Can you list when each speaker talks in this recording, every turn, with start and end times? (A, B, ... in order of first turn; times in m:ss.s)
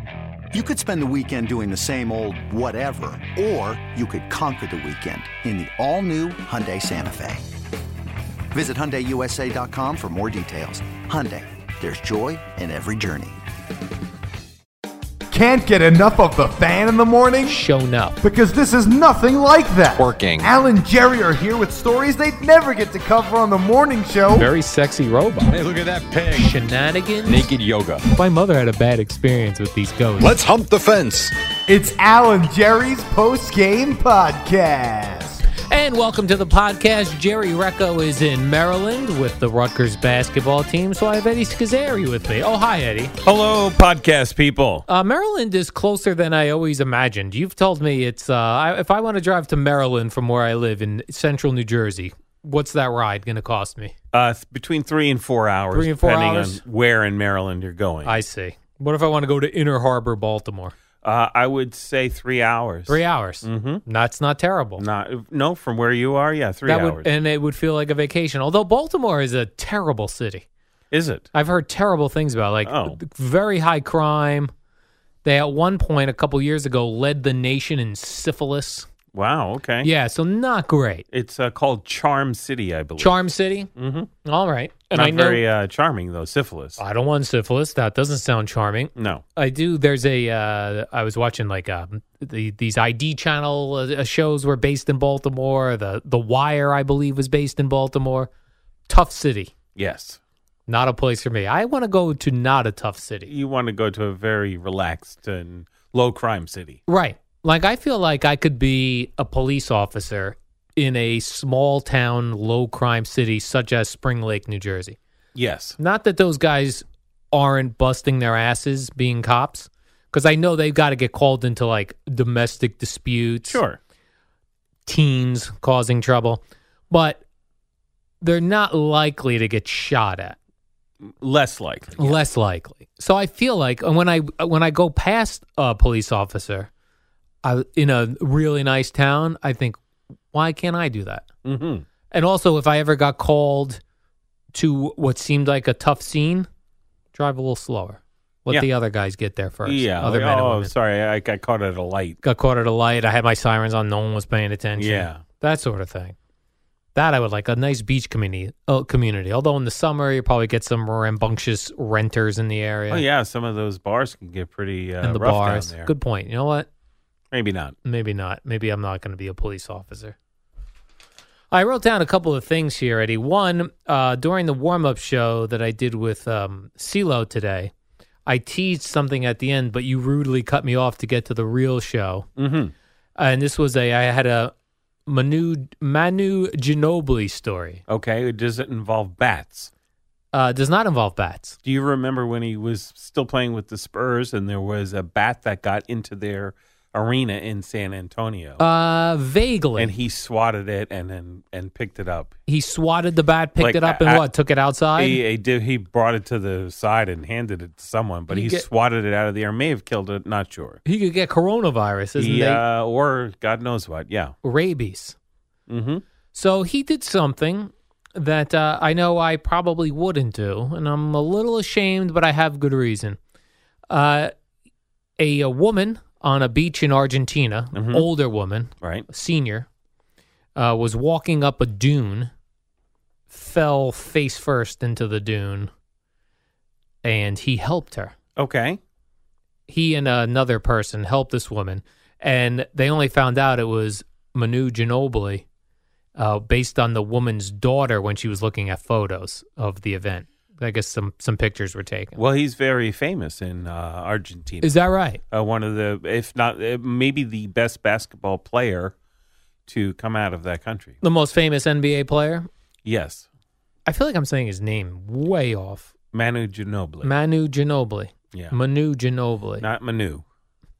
0:00.5-0:07.4 A
0:08.5-0:13.4 A
0:15.3-0:17.6 B
0:17.5-0:18.2 C
0:18.2-0:24.5 B
0:19.9-0:20.5 D
0:24.3-0:25.6 C
0:25.5-0:26.5 D
0:26.3-0:27.5 C
0:27.3-0:28.1 D
0:28.1-0:30.4 C
0:30.2-0:31.3 D
0:31.7-0:35.4 B
0:35.7-0:43.1 C
0:43.2-0:44.9 E
0:44.9-0:53.9 C
0:54.1-0:58.2 E
0:55.7-0:56.6 C
0:58.0-1:00.7 C
1:01.0-1:03.8 E
1:02.9-1:04.8 C
1:04.8-1:07.1 E
1:06.7-1:10.4 C
1:10.9-1:11.3 E
1:11.3-1:14.5 C
1:12.6-1:13.0 E
1:15.2-1:18.9 C
1:19.1-1:19.9 E
1:19.8-1:21.0 C
1:21.1-1:23.2 E
1:23.0-1:23.7 C
1:23.8-1:24.1 E
1:24.2-1:25.4 C
1:24.9-1:26.8 E
1:26.8-1:38.3 C
1:29.0-1:29.2 E
1:38.9-1:39.5 C
1:39.8-1:40.2 E
1:40.7-1:43.3 C
1:43.3-1:46.8 E
1:46.9-1:55.0 C
1:55.4-1:55.8 E
1:55.8-2:03.6 C
2:03.4-2:03.8 E
2:04.9-2:07.2 C
2:08.2-2:10.4 C
2:11.2-2:12.2 E
2:12.0-2:16.7 C
2:17.4-2:19.8 C
2:20.3-2:21.2 C
2:21.4-2:21.8 E
2:22.1-2:23.8 C
2:24.5-2:26.5 C
2:27.1-2:30.7 C
2:29.6-2:32.2 E
2:32.2-2:36.2 C
2:34.8-2:35.2 E
2:37.0-2:43.0 C
2:42.9-2:45.9 E
2:45.0-2:46.7 C
2:47.3-2:47.8 E
2:47.8-2:50.2 C
2:51.5-2:57.7 C
2:58.3-3:02.3 C
3:02.4-3:02.7 E
3:03.2-3:04.5 C
3:05.1-3:07.8 C
3:07.9-3:09.7 E
3:10.3-3:11.6 C
3:11.6-3:18.6 E
3:18.6-3:19.9 C
3:19.8-3:22.3 E
3:22.5-3:25.2 C
3:23.6-3:24.3 E
3:25.0-3:30.8 E
3:28.3-3:28.6 C
3:30.8-3:32.6 C
3:32.2-3:34.4 E
3:34.4-3:35.2 C
3:35.7-3:36.0 E
3:36.3-3:43.2 C
3:43.9-3:44.3 C
3:45.2-3:49.7 C
3:47.8-3:48.1 E
3:48.8-3:49.1 E
3:50.6-3:52.3 C
3:53.3-3:55.7 C
3:57.0-3:58.2 C
3:58.4-3:58.8 E
3:59.7-4:05.4 C
4:06.2-4:12.2 C
4:12.2-4:18.9 E
4:14.6-4:15.2 C
4:19.7-4:21.0 E
4:21.0-4:22.5 C
4:22.8-4:23.3 E
4:23.9-4:25.9 C
4:26.1-4:27.1 E
4:27.0-4:29.6 C
4:29.6-4:30.2 E